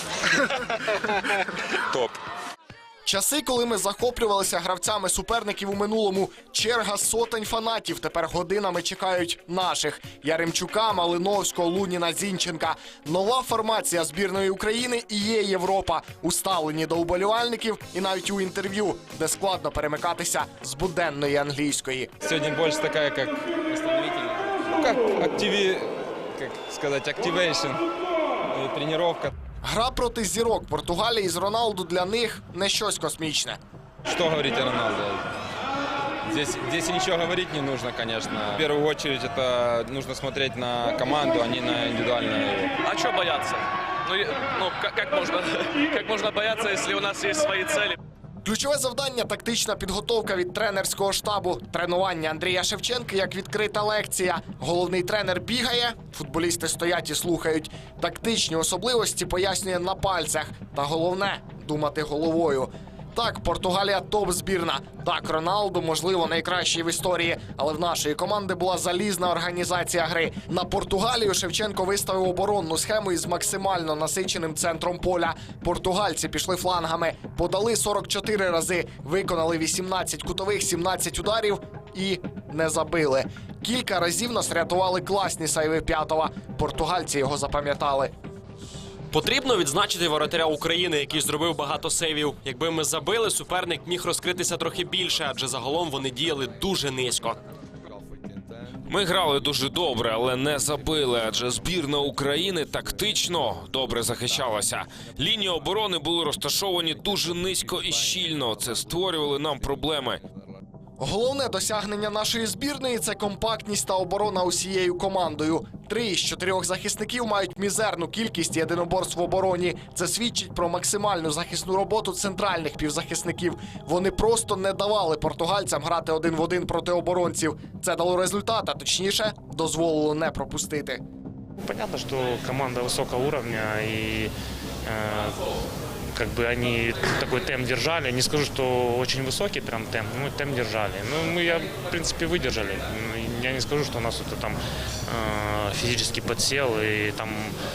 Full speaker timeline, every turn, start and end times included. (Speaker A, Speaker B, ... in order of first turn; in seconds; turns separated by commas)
Speaker A: 3.1-22.1, Speaker B: 22.2-27.8, Speaker B: 28.5-29.3, Speaker A: 29.6-33.6, Speaker B: 34.0-35.2, Speaker B: 36.2-42.7, Speaker C: 42.8-48.0, Speaker A: 48.4-88.1, Speaker D: 89.1-97.4, Speaker E: 98.9-110.2, Speaker A: 111.0-131.0, Speaker F: 131.6-134.3, Speaker F: 134.8-135.4, Speaker F: 136.1-147.6